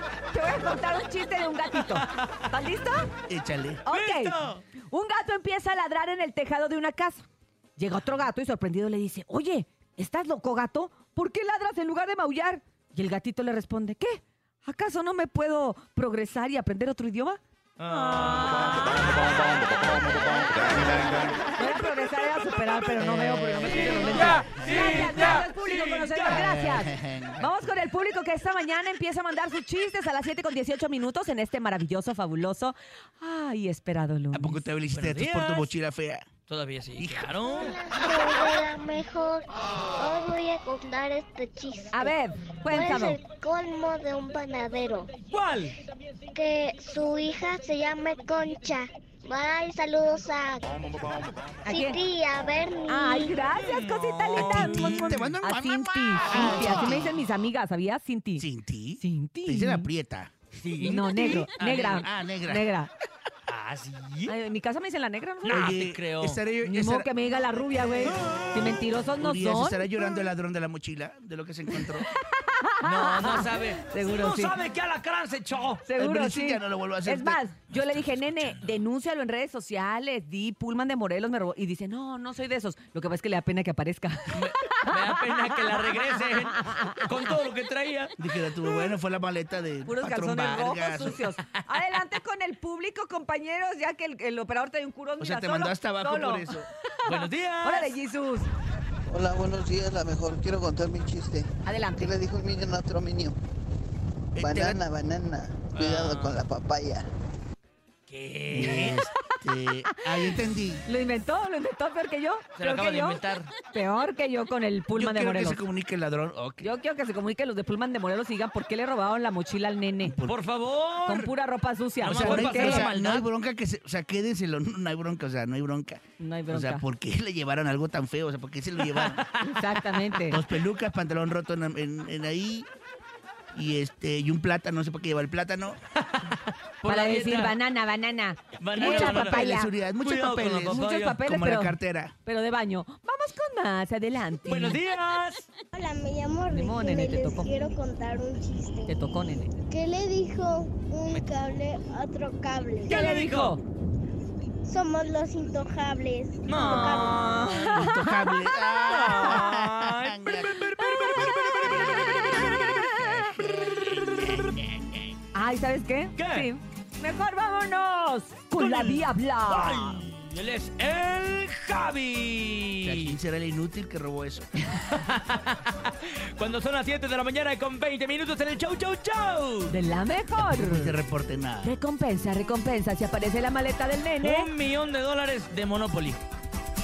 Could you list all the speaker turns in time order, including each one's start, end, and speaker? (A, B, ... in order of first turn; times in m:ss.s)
0:00.3-0:03.1 A
0:03.3-0:03.8 B
0:03.8-0:04.4 A
0:03.9-0:04.6 C
0:04.9-0:19.5 A
0:17.8-0:21.3 C
0:20.3-0:34.6 A
0:20.7-0:21.1 B
0:23.0-0:25.0 B
0:23.6-0:26.7 C
0:26.3-0:27.5 B
0:34.3-0:36.3 B
0:34.9-0:35.7 C
0:36.5-0:37.8 C
0:37.0-0:37.3 B
0:37.5-0:42.1 D
0:41.9-0:43.2 A
0:42.7-0:45.1 D
0:45.3-0:45.8 C
0:46.3-0:53.4 D
0:51.6-0:52.0 A
0:52.9-0:58.5 A
0:53.6-0:55.3 C
0:54.4-0:57.2 B
0:56.2-0:57.1 C
0:58.4-1:00.3 B
0:59.0-0:59.9 A
1:00.5-1:01.5 C
1:00.8-1:02.9 A
1:01.0-1:02.7 B
1:03.5-1:04.3 C
1:04.3-1:05.7 A
1:05.4-1:06.4 C
1:05.5-1:07.1 B
1:06.6-1:10.3 A
1:08.0-1:08.8 C
1:09.2-1:12.1 B
1:11.8-1:14.6 A
1:12.8-1:15.8 C
1:15.8-1:27.1 A
1:16.0-1:17.4 B
1:24.3-1:28.1 C
1:28.2-1:31.2 B
1:29.8-1:38.5 A
1:35.2-1:36.7 B
1:37.0-1:37.9 C
1:39.1-1:43.4 E
1:41.6-1:42.2 A
1:44.4-1:44.8 B
1:44.4-1:47.1 E
1:45.7-1:46.4 C
1:48.1-1:49.0 C
1:48.5-1:50.8 B
1:48.9-1:49.3 A
1:49.9-1:55.6 A
1:52.6-1:53.5 C
1:54.9-1:56.7 B
1:56.6-2:00.2 A
2:00.0-2:00.4 B
2:00.2-2:01.3 C
2:01.0-2:02.9 A
2:02.0-2:03.2 C
2:02.0-2:09.2 B
2:06.2-2:06.8 A
2:08.8-2:10.3 C
2:09.4-2:10.4 A
2:10.3-2:12.7 B
2:13.5-2:15.8 B
2:16.0-2:17.6 C
2:16.8-2:19.7 A
2:18.6-2:21.2 C
2:18.8-2:22.1 B
2:20.7-2:24.8 A
2:24.4-2:25.5 C
2:25.7-2:29.0 D
2:26.5-2:27.6 A
2:28.9-2:29.5 A
2:29.7-2:33.0 D
2:32.9-2:33.6 C
2:32.9-2:33.6 A
2:34.6-2:37.7 D
2:36.5-2:37.9 C
2:36.6-2:37.0 A
2:37.6-2:39.3 A
2:37.6-2:40.6 B
2:38.8-2:43.1 C
2:41.5-2:42.3 A
2:41.8-2:45.1 B
2:43.7-2:44.6 C
2:45.3-2:50.0 A
2:46.2-2:46.5 C
2:48.5-2:53.2 C
2:52.8-2:54.5 B
2:54.7-2:59.7 C
2:59.7-3:01.0 A
3:00.4-3:01.8 B
3:01.6-3:04.5 A
3:04.2-3:06.2 C